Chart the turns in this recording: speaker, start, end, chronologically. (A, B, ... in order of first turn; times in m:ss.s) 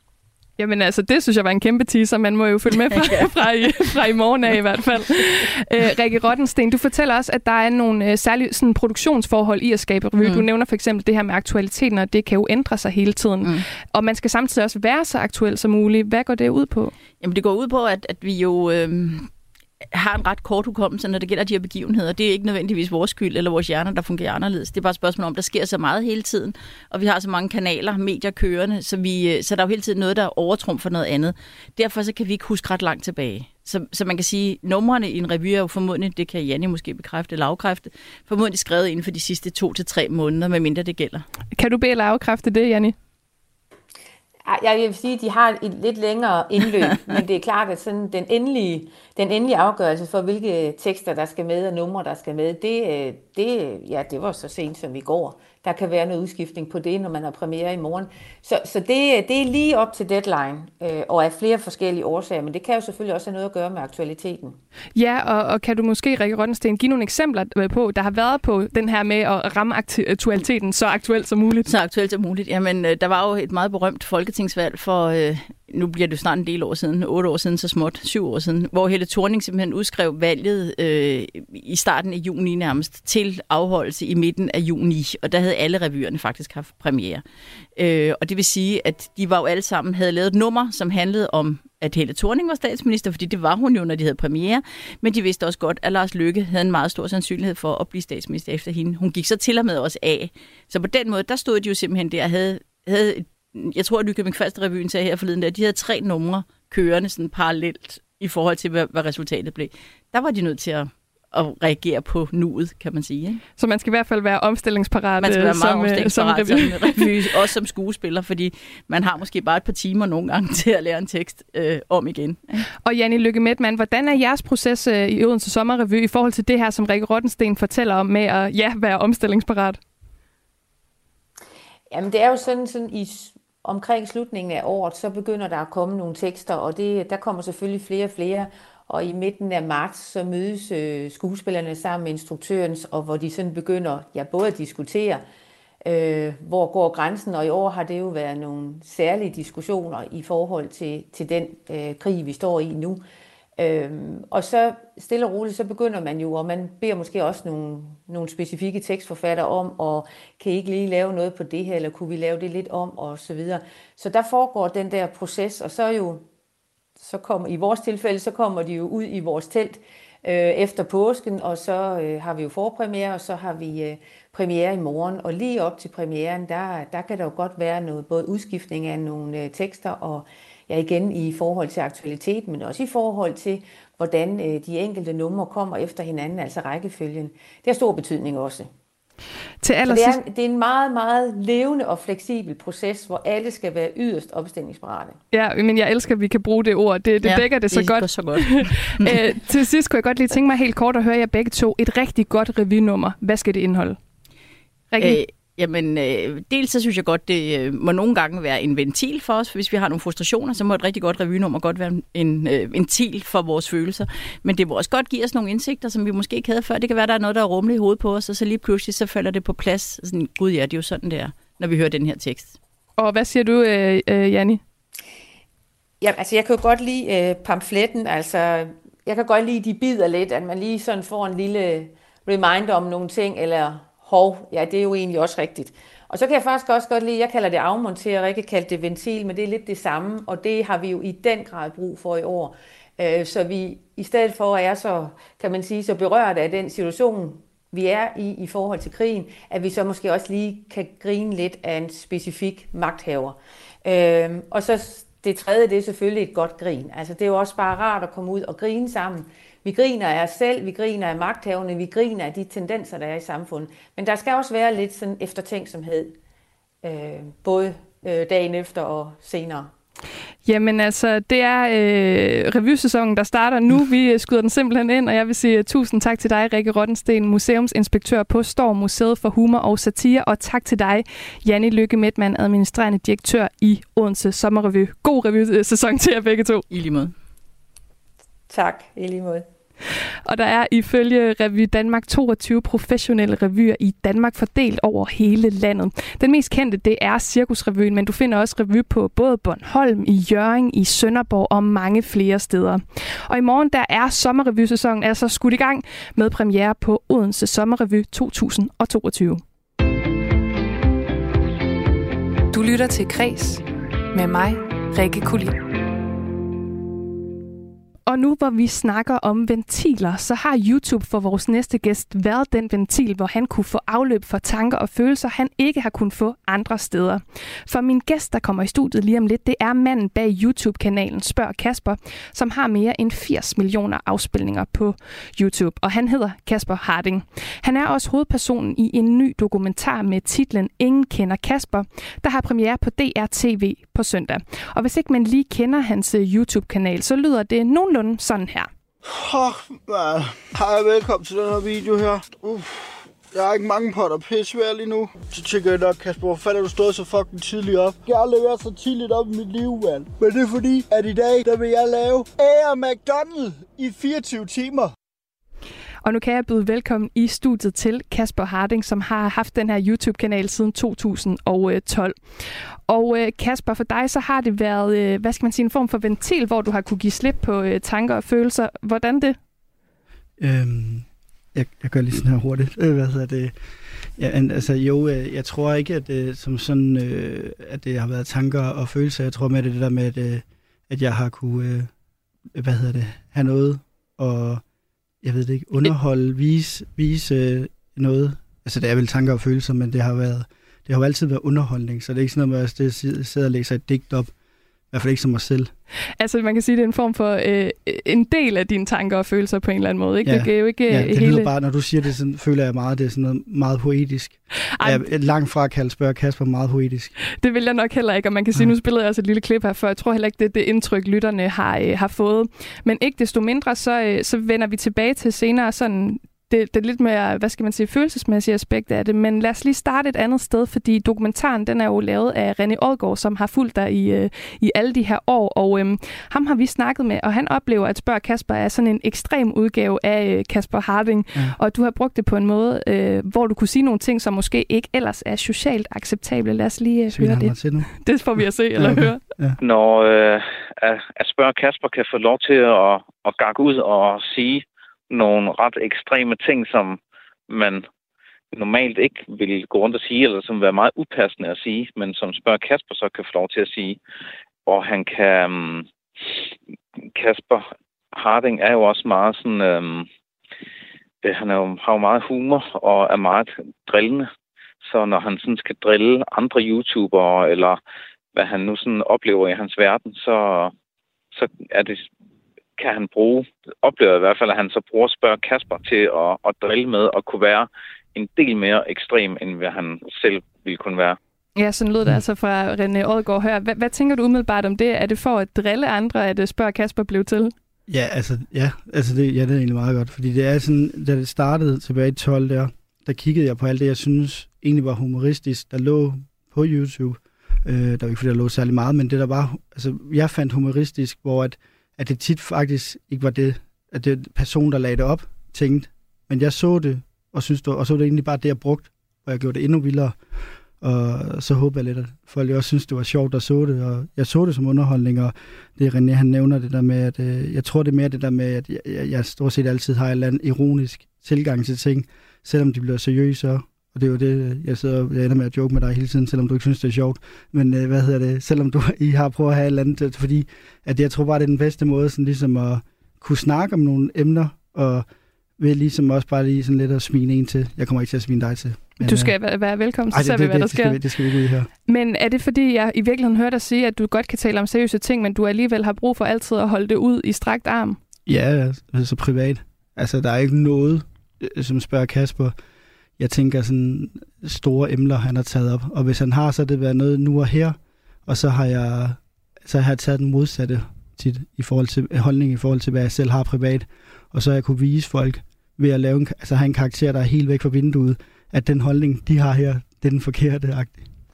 0:00.6-0:16.9 A
0:02.7-0:03.8 B
0:10.2-0:10.5 B
0:17.2-0:19.3 B
0:19.9-0:41.2 B
0:41.6-0:42.9 A
0:44.4-1:04.6 C
1:05.0-1:11.7 A
1:11.6-1:27.2 B
1:27.8-1:53.4 B
1:53.6-1:57.1 A
1:55.2-2:02.6 B
2:02.8-2:09.8 A
2:11.9-2:25.2 C
2:25.8-2:33.0 C
2:33.6-2:46.2 C
2:47.0-3:08.7 C
3:09.6-3:10.2 A
3:09.9-3:15.2 C
3:15.3-3:24.0 A
3:17.2-3:19.3 B
3:24.9-3:25.2 A
3:25.0-3:42.6 B
3:43.0-3:44.6 A
3:46.0-4:26.2 C
4:26.8-4:29.7 C
4:30.4-4:46.6 A
4:46.7-4:47.1 B
4:48.5-4:49.4 C
4:50.2-5:09.4 A
5:12.5-5:15.6 D
5:18.1-5:48.7 A
5:49.0-6:04.9 E
6:06.0-6:12.1 A
6:12.9-6:19.4 A
6:20.4-6:23.5 E
6:24.2-6:31.9 E
6:32.5-6:34.6 E
6:35.2-6:44.3 E
6:44.9-6:45.7 E
6:46.2-6:51.5 A
6:50.2-6:57.1 E
6:54.8-6:55.0 A
6:57.2-7:29.2 A
7:27.1-7:27.9 E
7:28.8-7:29.6 E
7:29.6-7:37.0 F
7:37.5-7:37.8 F
7:38.5-7:44.0 F
7:44.6-7:46.4 F
7:47.1-7:50.1 F
7:51.2-7:54.3 F
7:54.8-7:57.8 F
7:58.3-8:00.7 F
8:01.3-8:02.1 F
8:02.8-8:11.2 F
8:11.6-8:17.5 A
8:17.9-8:40.2 E
8:40.8-9:05.0 E
9:05.6-9:09.3 E
9:09.0-9:11.0 A
9:10.1-9:11.7 E
9:11.9-9:18.0 A
9:18.3-9:22.5 E
9:23.2-9:41.0 E